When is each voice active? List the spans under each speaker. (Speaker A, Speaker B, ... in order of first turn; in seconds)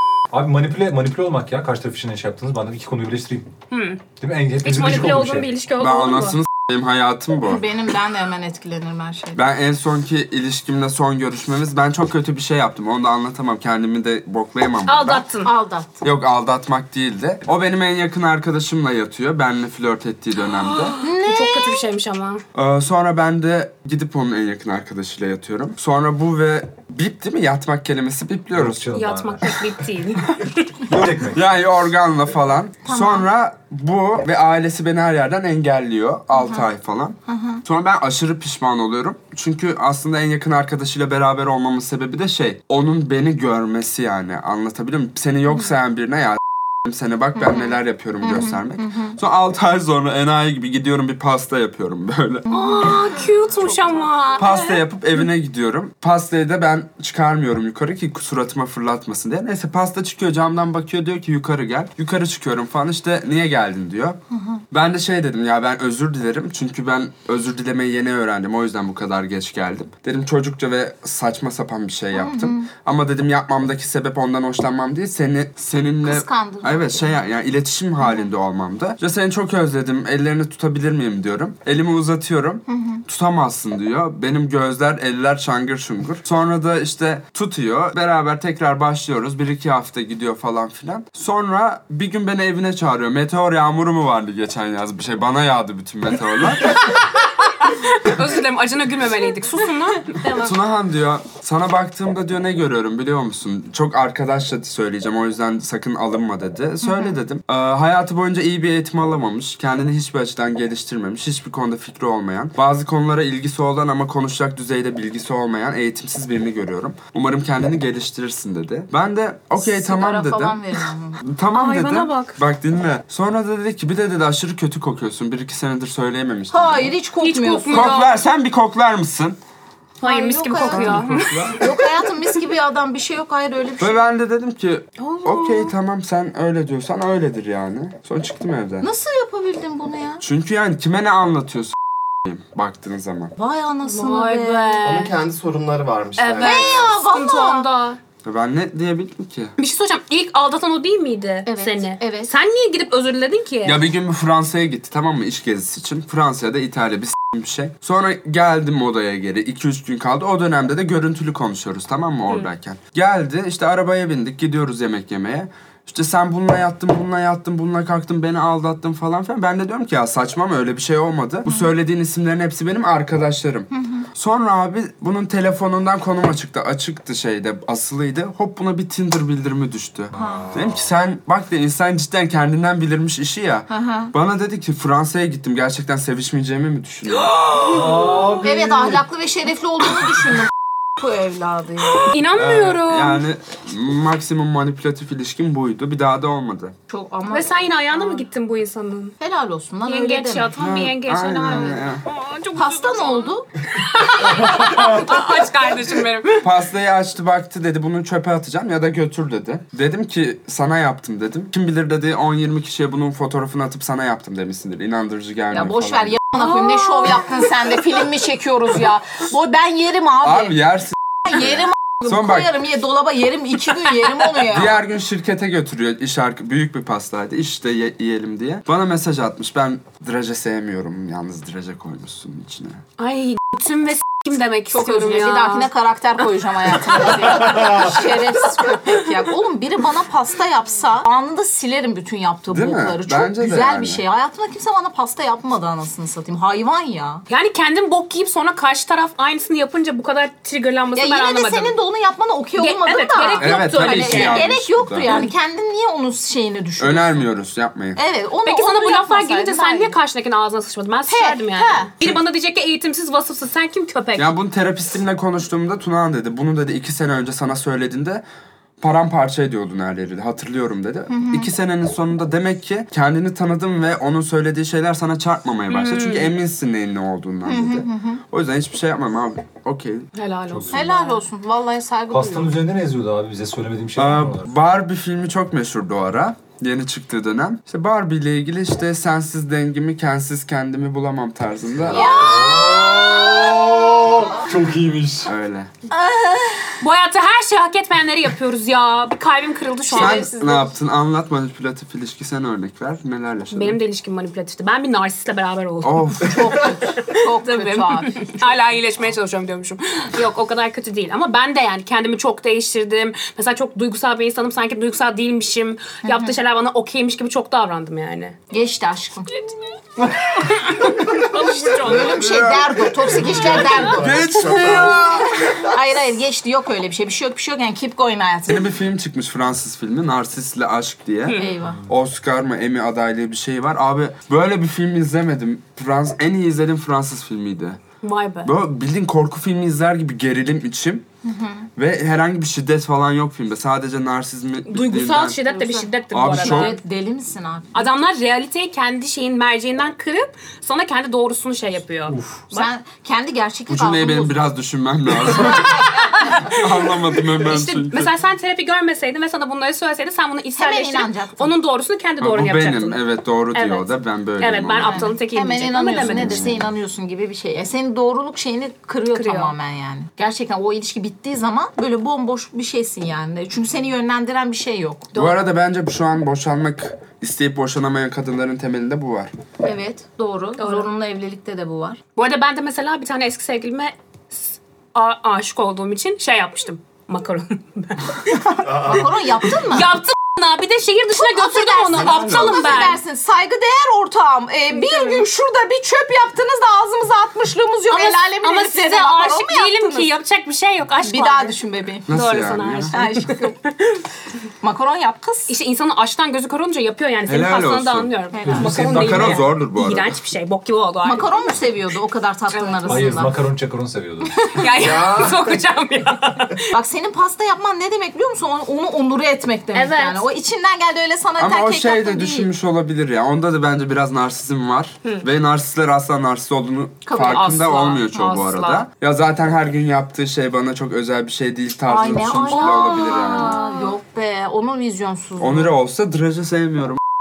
Speaker A: 0.3-3.5, 4.2-5.5, 28.5-29.6, 30.9-31.4, 187.6-188.9, 280.5-280.9, 282.1-284.5, 291.8-295.3, 352.1-352.4, 408.4-409.4, 412.9-414.3
Speaker B: 3.7-4.0, 4.6-6.4, 14.9-15.5, 20.4-22.4, 28.9-30.6, 52.5-54.8, 97.6-100.5, 121.5-122.4, 127.2-128.2, 130.0-131.4, 143.8-145.1, 146.2-148.0, 149.6-153.8, 187.3-188.4, 192.1-193.2, 197.3-199.2, 199.8-206.5, 216.6-217.0, 233.0-235.7, 236.8-237.8, 247.3-251.7, 252.6-254.4, 258.4-264.3, 275.7-276.3, 280.1-281.2, 296.8-300.3, 303.5-306.4, 307.1-318.4, 320.4-322.2, 331.2-331.5, 338.0-338.5, 344.6-346.8, 347.7-352.7, 357.4-363.0, 363.5-366.5, 369.1-369.5, 380.6-380.9, 382.1-393.0, 394.7-395.2, 397.9-404.0, 405.5-411.5, 412.5-413.2, 414.5-416.6, 419.7-420.2, 427.1-428.8, 432.5-433.9
Speaker C: 5.8-7.6, 9.3-15.2, 16.0-20.9, 22.5-28.9, 31.3-52.5, 54.4-64.2, 64.7-97.0, 100.3-126.9, 127.7-129.4, 130.6-131.6, 133.8-138.8, 140.2-143.3, 148.2-149.5, 153.6-187.3, 192.3-196.7, 200.6-202.0, 206.4-216.2, 220.2-222.6, 224.4-232.8, 242.5-244.0, 253.4-255.2, 256.8-258.0, 264.1-268.2, 268.8-280.1, 284.0-292.4, 295.2-295.7, 299.9-303.8, 305.8-306.5, 321.8-325.2, 328.5-337.8, 338.4-341.0, 341.8-345.4, 346.1-346.7, 353.7-358.1, 362.2-365.1, 365.9-366.7, 375.1-379.3, 391.9-392.9, 402.1-402.9, 407.3-410.1, 421.4-433.6, 435.4-437.0
Speaker D: 7.5-9.4, 15.4-16.0, 21.0-21.8, 32.8-33.3, 36.3-36.6, 37.3-37.6, 47.4-49.2, 52.5-54.8, 64.3-64.6, 72.1-72.7, 76.0-77.1, 78.0-78.3, 82.7-83.0, 106.8-107.1, 119.5-121.2, 126.5-128.0, 130.0-134.0, 135.0-135.7, 138.8-140.2, 143.3-144.9, 146.4-147.7, 151.4-152.3, 173.7-174.1, 180.2-180.5, 183.7-184.1, 188.4-192.2, 196.9-198.2, 199.2-200.5, 202.5-203.4, 215.5-220.6, 221.3-224.8, 234.7-247.2, 250.9-257.3, 257.9-259.9, 261.1-261.9, 271.1-271.5, 277.4-278.2, 280.7-282.5, 291.9-293.7, 295.9-296.8, 299.9-300.8, 306.2-308.4, 316.0-316.4, 318.5-319.3, 321.8-328.7, 331.3-331.8, 341.2-341.7, 345.4-347.9, 352.5-354.4, 355.4-355.7, 360.6-361.5, 364.8-375.3, 379.6-382.0, 388.7-389.9, 391.1-400.1, 401.0-402.1, 402.9-403.6, 404.6-405.5, 408.3-408.9, 411.0-413.4, 414.4-414.9, 416.7-422.5, 431.9-435.7
Speaker E: 144.8-146.8, 323.1-325.7, 388.7-389.0, 414.8-415.6